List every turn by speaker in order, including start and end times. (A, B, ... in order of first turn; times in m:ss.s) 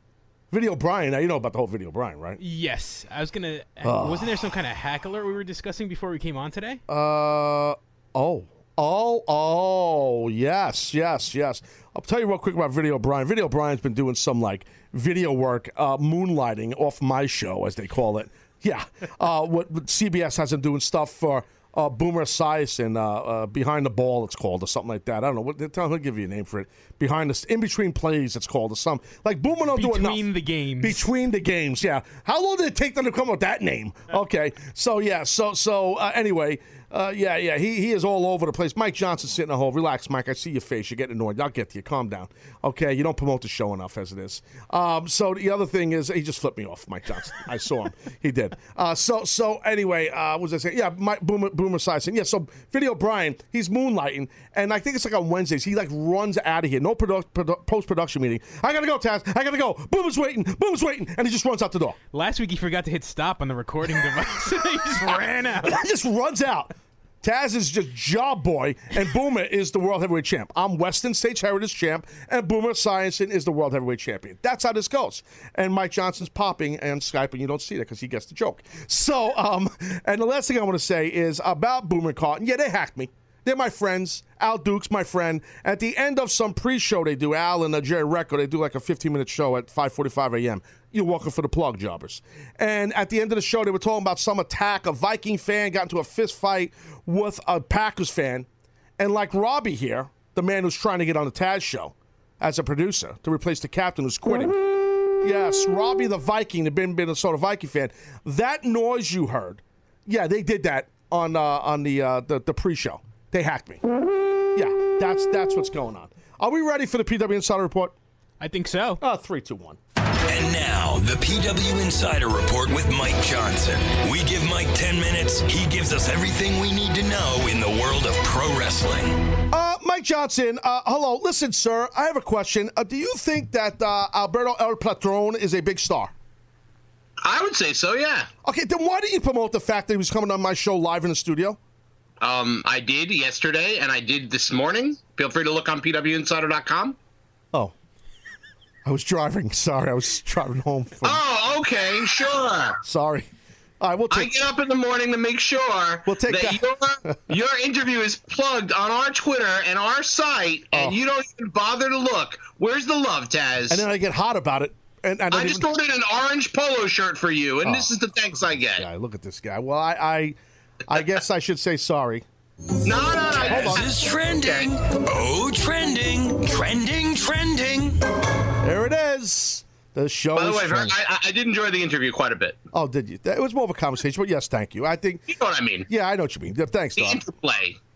0:00.5-0:02.4 A
0:02.4-0:06.8 B
0:03.8-0:04.5 A
0:06.9-0:30.3 A
0:29.7-0:31.0 B
0:30.8-1:02.0 A
1:02.1-1:05.8 B
1:05.6-1:38.5 A
1:39.0-1:44.5 A
1:45.2-1:53.8 A
1:54.5-1:57.9 A
1:58.4-1:59.0 B
1:59.0-1:59.8 A
2:00.3-2:09.2 C
2:09.5-2:16.1 A
2:17.2-2:18.3 D
2:18.4-2:21.6 A
2:22.2-2:27.0 D
2:28.8-2:31.2 A
2:31.0-2:32.8 D
2:32.8-2:33.3 A
2:33.8-2:34.4 A
2:34.1-2:43.8 D
2:36.0-2:37.2 A
2:40.7-2:41.0 A
2:43.7-2:45.7 A
2:45.3-2:48.9 D
2:47.6-2:47.9 A
2:48.7-2:50.4 A
2:50.9-2:52.2 A
2:52.8-2:53.9 D
2:53.3-2:53.8 A
2:53.4-2:58.0 C
2:54.4-2:54.7 D
2:58.6-3:00.9 A
3:00.3-3:02.6 D
3:02.7-3:05.3 A
3:05.3-3:05.9 D
3:05.9-3:07.2 A
3:07.0-3:07.8 D